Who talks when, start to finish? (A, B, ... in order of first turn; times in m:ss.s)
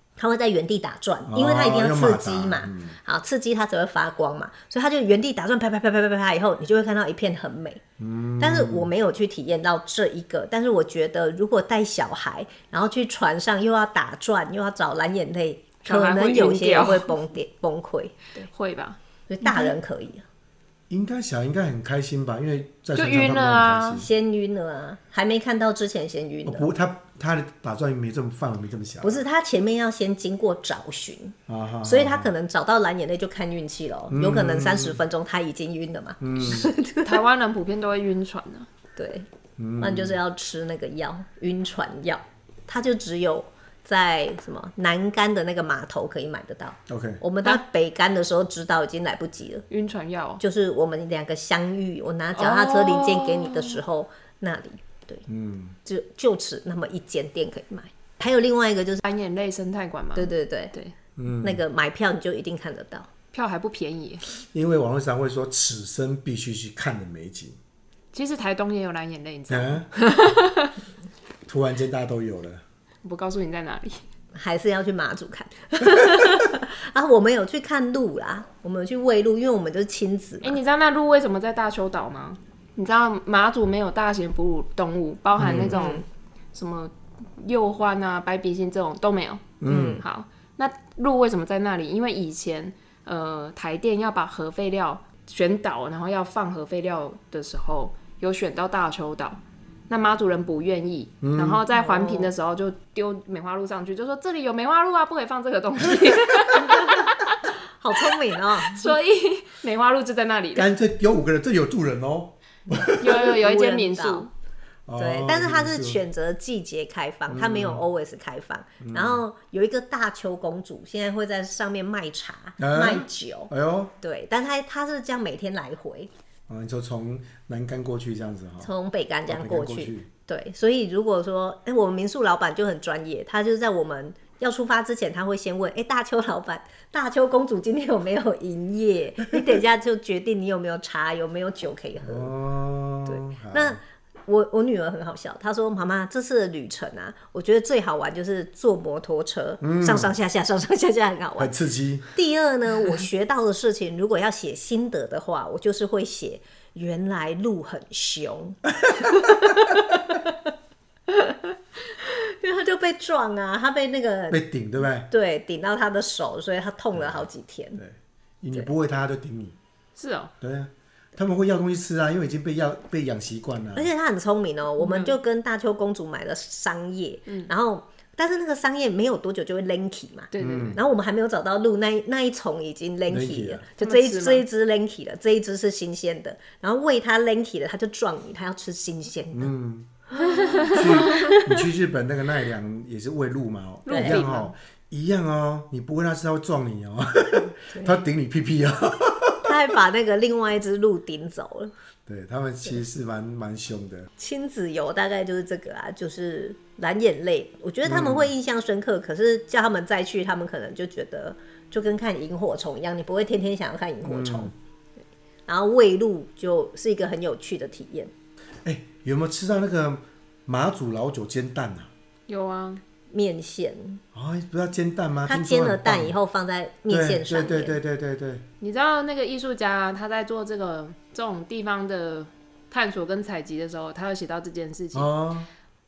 0:00.2-0:07.8 A
0:01.3-0:03.0 B
0:08.0-0:08.9 B
0:08.4-0:18.5 A
0:15.8-0:17.1 C
0:18.4-0:19.7 C
0:19.3-0:20.2 A
0:20.9-0:24.1 B
0:22.9-0:24.0 C
0:24.0-0:26.7 A
0:26.4-0:29.2 B
0:29.0-0:37.2 A
0:31.5-0:32.3 B
0:34.1-0:35.0 B
0:36.2-0:36.7 B
0:37.0-0:38.7 C
0:39.0-0:49.6 A
0:39.6-0:40.2 B
0:46.9-0:47.2 B
0:49.7-0:50.4 C
0:50.4-0:55.2 A
0:52.3-0:53.8 C
0:55.3-0:55.8 B
0:55.8-0:59.0 A
0:59.0-1:00.9 C
1:00.2-1:00.7 A
1:01.2-1:01.6 B
1:01.4-1:03.1 A
1:03.3-1:04.2 C
1:04.5-1:07.6 B
1:08.1-1:10.7 C
1:09.5-1:09.9 B
1:11.4-1:12.6 B
1:13.0-1:14.0 C
1:14.3-1:20.6 A
1:20.4-1:47.4 C
1:25.4-1:25.7 B
1:25.5-1:26.0 A
1:29.6-1:30.0 B
1:29.7-1:30.0 A
1:41.2-1:41.6 B
1:41.7-1:42.3 A
1:47.8-1:48.9 A
1:48.0-1:50.7 C
1:50.5-1:53.2 B
1:53.0-1:54.3 C
1:53.0-1:54.3 A
1:54.9-1:56.0 B
1:55.0-2:06.1 A
1:57.3-1:57.8 B
1:58.8-1:59.2 B
2:02.6-2:03.9 B
2:06.5-2:08.7 B
2:08.6-2:22.3 A
2:09.3-2:10.1 B
2:22.0-2:23.8 B
2:23.0-2:31.5 A
2:29.6-2:30.1 B
2:31.4-2:32.1 B
2:32.1-2:40.4 A
2:38.8-2:39.3 B
2:41.1-2:44.4 A
2:44.3-2:45.1 B
2:45.1-2:47.8 A
2:46.9-2:47.2 B
2:47.8-2:49.6 B
2:50.0-2:50.3 C
2:50.4-2:53.9 B
2:53.7-3:09.5 A
2:54.8-2:55.1 C
3:00.3-3:00.8 C
3:00.4-3:00.8 B
3:03.1-3:03.6 B
3:03.8-3:04.4 C
3:09.3-3:09.9 B
3:10.1-3:11.5 A
3:10.1-3:11.3 C
3:10.6-3:19.7 B
3:13.8-3:14.5 C
3:13.9-3:14.2 A
3:17.7-3:18.0 A
3:19.4-3:21.7 A
3:22.1-3:24.1 B
3:24.2-3:34.5 A
3:27.8-3:28.3 B
3:34.0-3:34.5 B
3:35.5-3:38.1 A
3:38.6-3:41.9 B
3:42.3-3:42.8 C
3:43.1-3:44.0 A
3:44.1-3:46.2 B
3:45.3-3:47.8 A
3:46.9-3:48.4 B
3:48.6-3:55.1 C
3:54.9-3:55.5 B